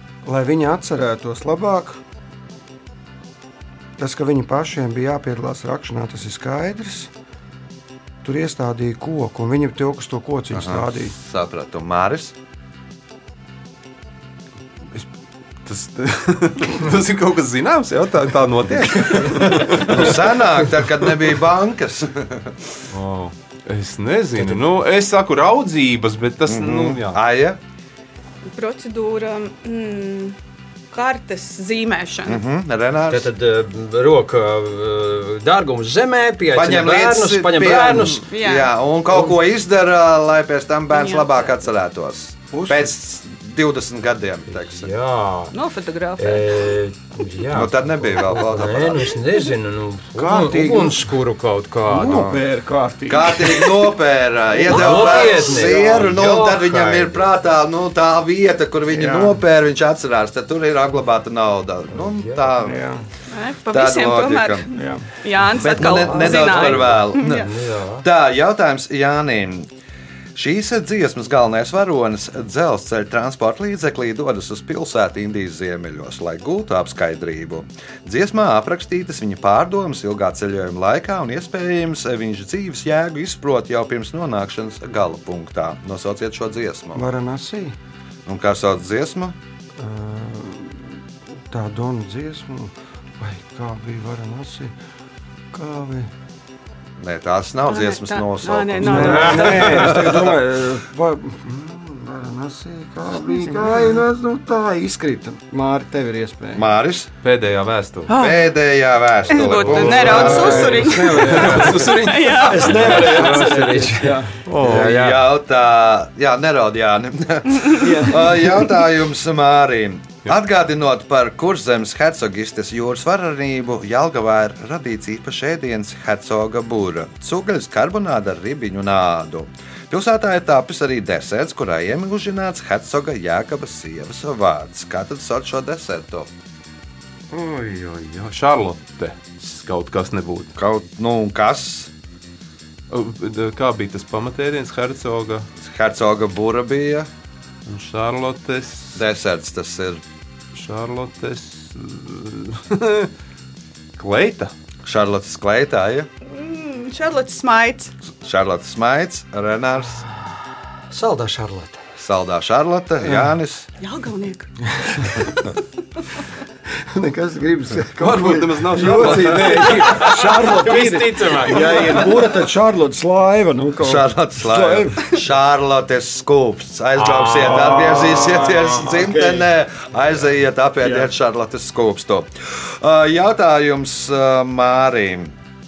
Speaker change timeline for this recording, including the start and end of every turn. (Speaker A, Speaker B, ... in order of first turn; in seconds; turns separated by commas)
Speaker A: 0.2-2.0, Speaker A: 4.0-7.1, Speaker A: 8.2-11.2, Speaker B: 10.5-12.3, Speaker C: 15.7-20.3, Speaker B: 19.7-22.7, Speaker C: 22.9-27.2, Speaker B: 26.5-27.6, Speaker D: 28.5-30.4, Speaker D: 30.9-32.4, Speaker B: 32.3-33.3, Speaker E: 33.1-38.3, Speaker B: 36.5-44.9, Speaker D: 38.2-38.7, Speaker E: 39.1-39.4, Speaker D: 40.9-41.5, Speaker A: 42.5-42.9, Speaker E: 44.5-45.5, Speaker D: 45.5-46.6, Speaker E: 46.2-52.3, Speaker B: 47.5-49.2, Speaker A: 50.2-51.1, Speaker A: 51.9-53.9, Speaker B: 52.1-52.4, Speaker B: 53.1-62.9, Speaker E: 54.6-57.3, Speaker A: 54.9-55.8, Speaker A: 58.9-59.4, Speaker E: 61.9-62.6, Speaker A: 62.6-63.0, Speaker D: 63.3-67.5, Speaker B: 63.7-64.7, Speaker A: 64.8-65.1, Speaker B: 65.6-67.5, Speaker E: 65.9-68.1, Speaker B: 68.0-69.7, Speaker B: 70.3-87.1, Speaker A: 86.9-87.8, Speaker B: 88.3-89.4, Speaker A: 89.8-94.7, Speaker A: 95.5-96.1, Speaker B: 97.0-100.4, Speaker D: 97.7-99.8, Speaker A: 98.8-106.7, Speaker E: 99.0-100.1, Speaker D: 103.3-103.7, Speaker B: 106.5-107.1, Speaker C: 107.2-108.1, Speaker D: 108.1-108.5, Speaker B: 108.2-110.8, Speaker D: 109.3-112.8, Speaker C: 109.3-113.5, Speaker A: 109.7-114.3, Speaker E: 112.6-115.3, Speaker C: 114.5-115.0, Speaker B: 114.6-136.3, Speaker A: 117.8-118.7, Speaker C: 137.3-140.5, Speaker B: 140.6-141.9, Speaker C: 142.9-145.5, Speaker B: 145.6-147.1, Speaker C: 147.7-149.0, Speaker B: 148.9-150.0, Speaker C: 150.5-153.1, Speaker C: 154.0-154.5, Speaker B: 154.8-156.1, Speaker D: 156.3-157.9, Speaker B: 158.1-160.1, Speaker E: 160.9-161.8, Speaker B: 162.0-163.7, Speaker D: 163.8-165.4, Speaker A: 166.7-175.2, Speaker C: 168.0-170.5, Speaker E: 169.3-172.2, Speaker B: 173.8-185.4, Speaker E: 176.9-178.4, Speaker A: 177.8-179.4